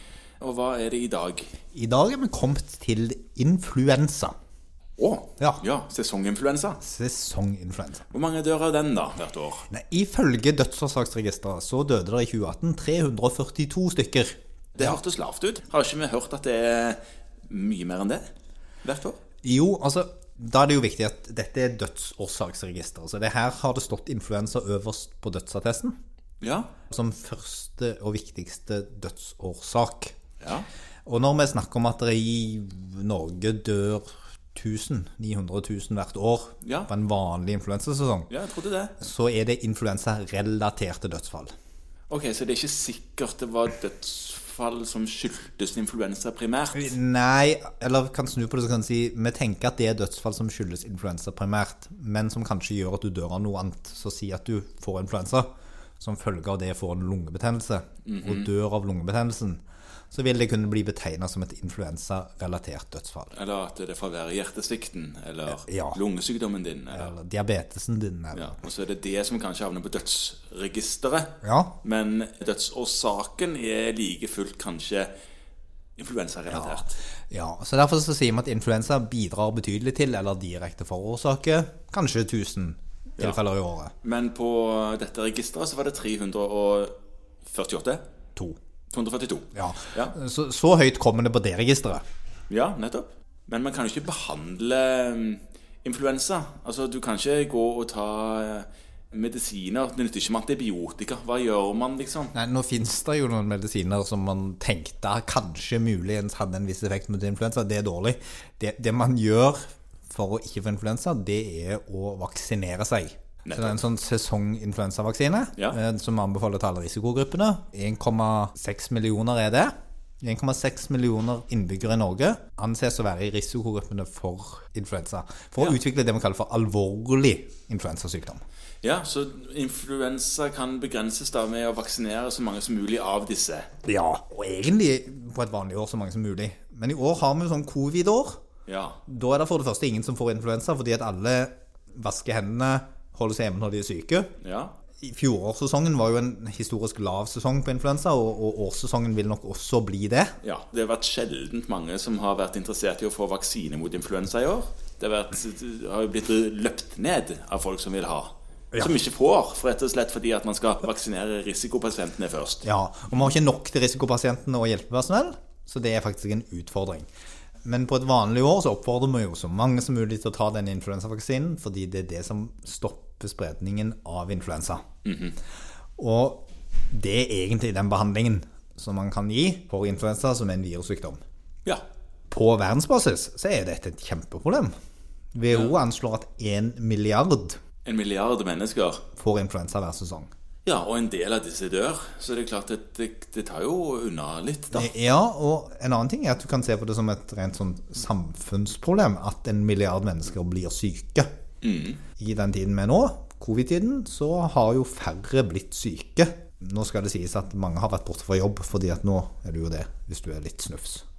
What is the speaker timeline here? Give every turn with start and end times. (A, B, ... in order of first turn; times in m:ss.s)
0:00.4-0:01.5 A
0:01.7-0:04.4 B
0:05.0-0:06.8 A
0:06.8-0:08.1 B
0:08.1-0:09.7 A
0:09.7-0:15.0 B
0:14.8-0:18.2 A
0:18.8-0:19.2 A
0:19.4-0:26.0 B
0:26.4-0:26.7 A
0:26.9-0:30.2 B
0:30.4-0:30.7 A
0:31.1-0:38.3 B
0:36.6-0:36.9 A
0:38.3-0:39.0 A
0:39.0-0:41.5 B
0:42.1-0:47.0 A
0:46.7-0:55.5 B
0:56.0-1:03.3 B
0:58.1-0:58.5 A
1:03.3-1:07.1 A
1:05.6-1:06.0 B
1:06.9-1:08.6 B
1:08.3-1:15.1 A
1:11.4-1:11.7 B
1:16.0-1:17.0 A
1:16.5-1:23.9 B
1:24.0-1:26.9 A
1:27.5-1:28.0 A
1:28.9-1:30.2 A
1:29.5-1:32.0 B
1:32.5-1:42.3 A
1:42.3-2:08.4 B
1:53.5-1:53.8 A
2:08.8-2:13.7 A
2:13.8-2:18.4 B
2:18.7-2:19.0 A
2:19.1-2:24.3 B
2:24.4-2:24.8 A
2:25.0-2:30.4 B
2:30.4-2:42.7 A
2:42.6-2:47.1 B
2:47.6-2:54.8 B
2:55.0-2:55.4 A
2:56.0-3:01.2 B
3:02.3-3:04.7 B
3:05.4-3:07.6 B
3:07.8-3:09.0 A
3:09.2-3:10.3 B
3:10.6-3:14.9 A
3:14.7-3:21.3 B
3:21.6-3:22.0 A
3:22.2-3:31.0 B